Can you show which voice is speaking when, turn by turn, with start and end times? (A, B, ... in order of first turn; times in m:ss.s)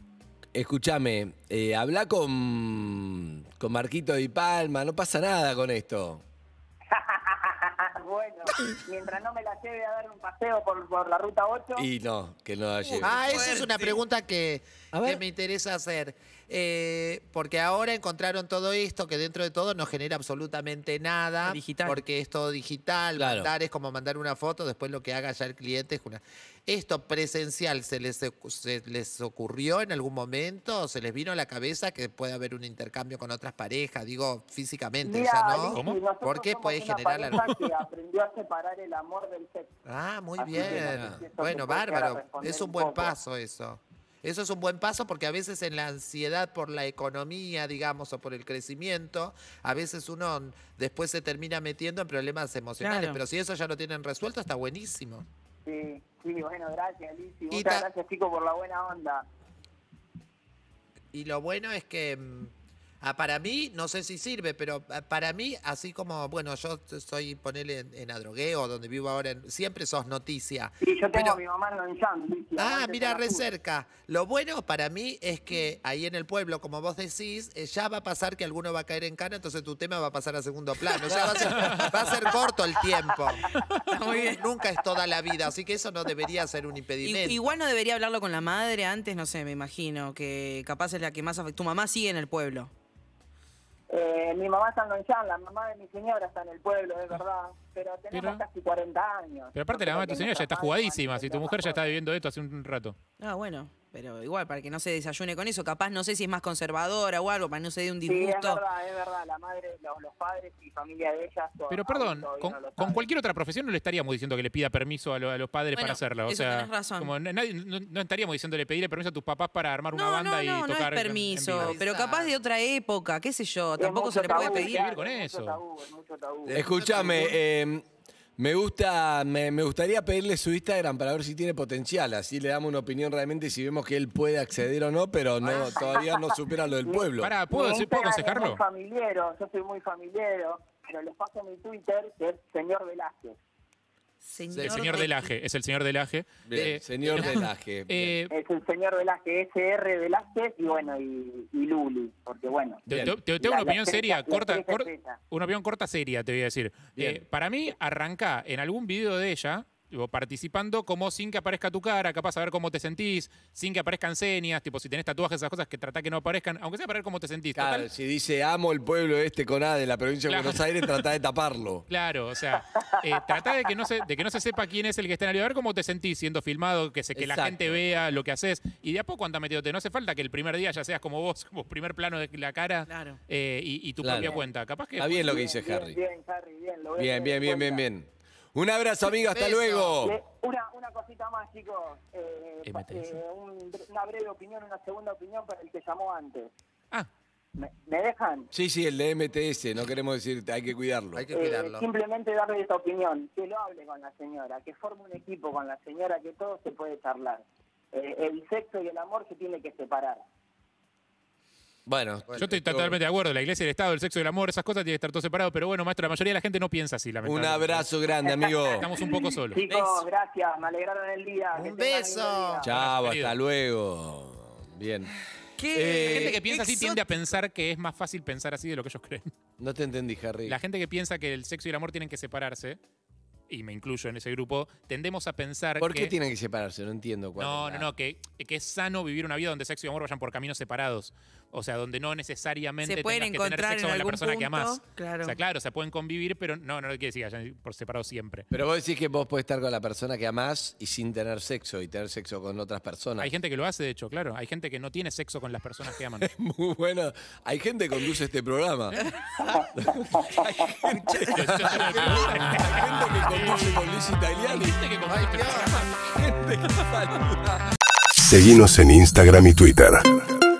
0:00.5-0:06.2 A
0:06.9-0:11.9 B
0:11.8-0:13.6 A
0:12.8-0:14.0 C
0:13.0-0:37.4 D
0:14.9-0:15.2 A
0:21.4-0:22.0 C
0:23.2-0:23.5 A
0:35.0-0:39.7 B
0:35.7-0:36.1 E
0:39.8-0:55.2 D
0:40.4-0:43.1 B
0:40.6-0:41.2 A
0:52.8-0:53.2 C
0:55.6-0:59.2 B
0:57.5-0:57.8 D
1:01.1-1:11.4 D
1:10.8-1:13.4 B
1:12.6-1:23.5 D
1:21.0-1:21.9 A
1:21.5-1:21.9 E
1:23.9-1:24.4 C
1:24.1-1:27.5 D
1:27.0-1:32.7 C
1:33.9-1:41.9 B
1:38.1-1:38.4 E
1:39.5-1:43.0 E
1:43.2-1:48.6 C
1:48.0-1:53.1 B
1:51.7-2:01.8 E
1:55.7-1:57.1 C
1:59.9-2:04.8 C
2:01.6-2:02.3 D
2:03.8-2:07.2 B
2:04.2-2:05.6 E
2:06.5-2:07.4 D
2:06.5-2:07.8 A
2:08.4-2:17.4 A
2:15.4-2:15.9 D
2:15.8-2:16.1 B
2:16.8-2:23.4 B
2:17.2-2:18.6 E
2:24.2-2:25.3 C
2:24.5-2:25.0 D
2:24.6-2:28.3 E
2:26.4-2:28.2 A
2:26.5-2:27.4 D
2:28.3-2:35.2 B
2:32.9-2:47.9 E
2:32.9-2:33.1 A
2:36.9-2:37.2 A
2:47.5-2:51.8 A
2:50.3-2:51.0 E
2:51.9-3:05.3 E
2:57.1-2:57.8 A
3:02.9-3:03.2 C
3:04.0-3:04.4 A
3:04.1-3:04.4 B
3:05.0-3:06.0 A
3:05.1-3:07.8 B
3:07.0-3:10.2 A
3:09.2-3:10.0 D
3:10.0-3:16.5 B
3:12.6-3:13.2 E
3:17.6-3:18.5 B
3:18.5-3:21.3 A
3:21.1-3:21.9 D
3:21.3-3:30.2 B
3:31.9-3:33.0 A
3:32.4-3:37.9 E
3:37.2-3:38.9 A
3:38.3-3:42.7 B
3:38.6-3:39.6 E
3:39.7-3:40.0 C
3:41.5-3:42.6 D
3:42.6-3:45.1 A
3:42.7-3:43.3 E
3:45.6-3:47.0 C
3:45.7-3:46.4 A
3:46.0-3:49.3 E
3:49.6-3:50.6 A
3:50.4-3:52.8 E
3:53.5-3:56.1 E
3:55.8-3:57.9 A
3:57.4-4:08.5 E
4:02.8-4:05.4 C
4:08.5-4:13.3 A
4:13.2-4:16.3 E
4:16.2-4:19.0 A
4:19.0-4:19.6 C
4:19.7-4:24.8 A
4:21.3-4:23.8 E
4:24.4-4:25.9 E
4:25.1-4:25.7 D
4:26.0-4:27.7 A
4:28.2-4:30.1 F